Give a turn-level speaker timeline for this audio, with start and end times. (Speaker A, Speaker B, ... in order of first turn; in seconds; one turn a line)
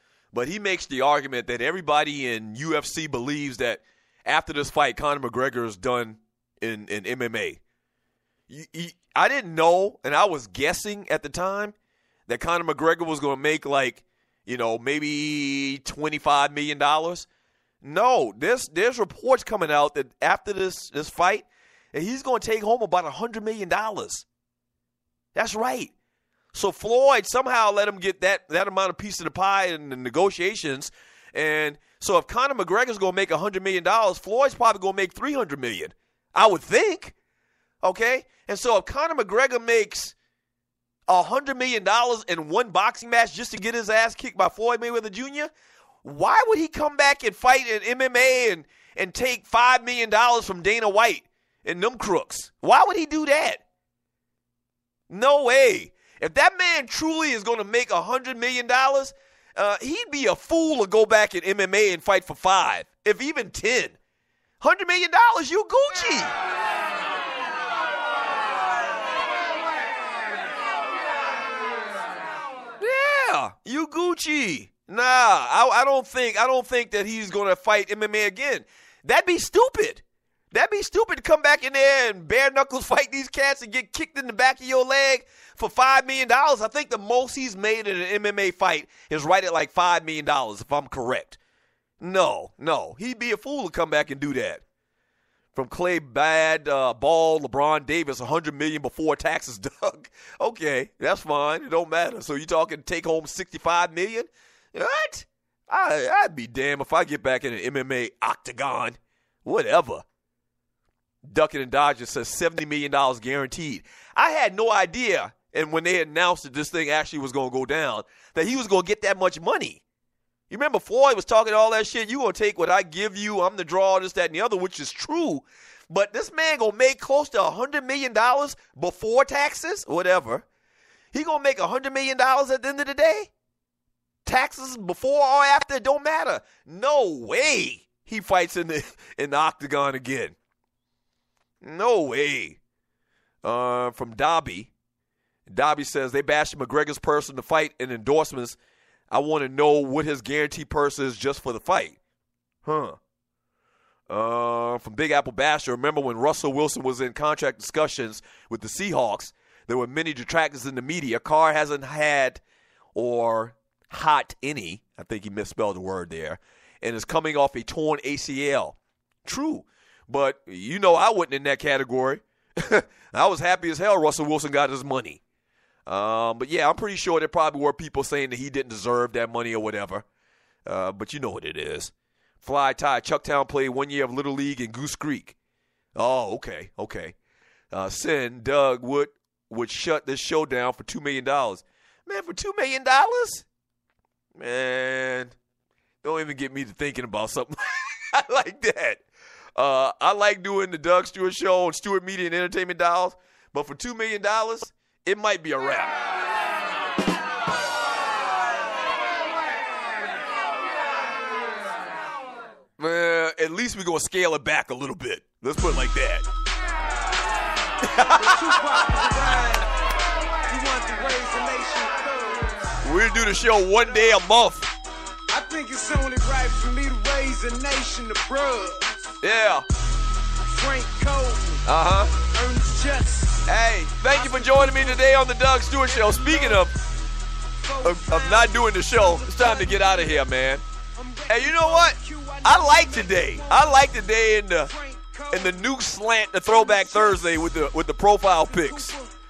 Speaker A: 0.3-7.6
Speaker A: 8.5-11.7
Speaker A: 12.3-17.3
Speaker A: 17.8-24.2
Speaker A: 25.3-25.9
Speaker A: 26.5-37.1
Speaker A: 37.8-40.1
Speaker A: 41.1-45.5
Speaker A: 46.0-53.6
Speaker A: 55.1-64.0
Speaker A: 64.6-66.3
Speaker A: 72.8-91.4
Speaker A: 92.0-94.6
Speaker A: 95.5-110.0
Speaker A: 111.2-119.8
Speaker A: 120.5-130.4
Speaker A: 131.1-133.3
Speaker A: 134.2-140.3
Speaker A: 141.6-142.6
Speaker A: 143.4-144.7
Speaker A: 145.5-148.6
Speaker A: 149.1-152.0
Speaker A: 152.6-153.0
Speaker A: 154.1-162.4
Speaker A: 162.9-175.2
Speaker A: 175.9-180.1
Speaker A: 180.7-185.3
Speaker A: 185.9-187.2
Speaker A: 187.7-193.4
Speaker A: 194.4-195.3
Speaker A: 196.0-199.0
Speaker A: 199.6-205.9
Speaker A: 212.8-216.3
Speaker A: 217.8-219.2
Speaker B: 218.0-219.7
Speaker B: 220.5-222.7
Speaker A: 222.8-224.7
Speaker B: 225.3-229.1
Speaker A: 229.2-229.7
Speaker B: 230.4-231.7
Speaker A: 231.6-232.1
Speaker B: 232.2-233.4
Speaker A: 233.4-236.7
Speaker B: 234.1-235.2
Speaker B: 235.7-236.7
Speaker B: 237.6-240.3
Speaker A: 237.8-240.6
Speaker B: 240.9-245.6
Speaker A: 241.3-244.7
Speaker A: 245.3-248.9
Speaker B: 246.4-247.5
Speaker B: 248.3-249.1